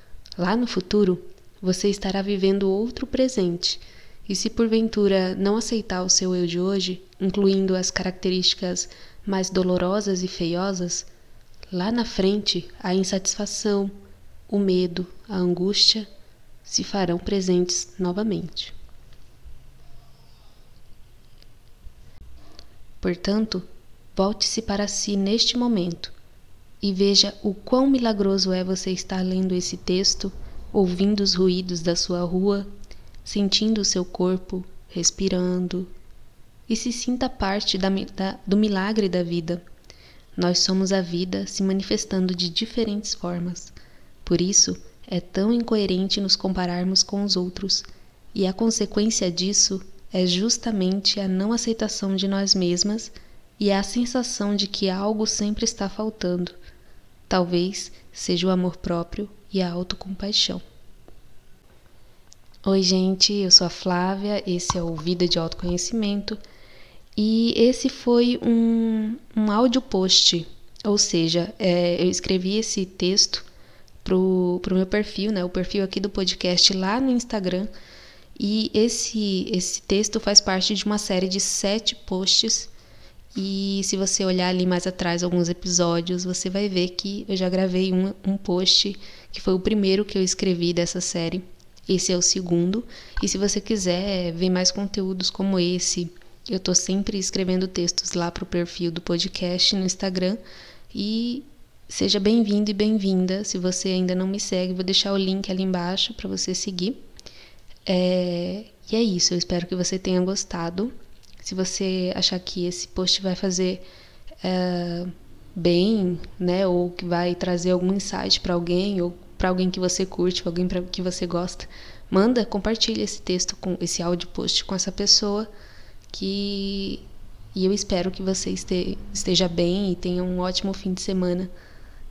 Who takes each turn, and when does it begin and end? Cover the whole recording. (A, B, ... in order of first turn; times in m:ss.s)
0:00.4-0:11.1 A
0:11.7-0:13.9 A
0:14.5-0:16.1 A
0:16.6-0:18.7 A
0:23.0-0:26.1 A
0:26.8-0:32.7 A
0:33.2-0:35.9 A
0:36.7-0:39.6 A
0:40.4-0:43.7 A
0:44.2-0:56.6 A
0:57.3-1:00.6 A
1:02.6-1:06.4 A
1:07.2-1:13.4 A
1:14.0-1:17.7 A
1:18.4-1:22.7 A
1:23.3-1:40.4 A
1:40.9-1:47.0 A
1:47.8-1:53.8 A
1:54.4-2:05.5 A
2:06.1-2:11.5 A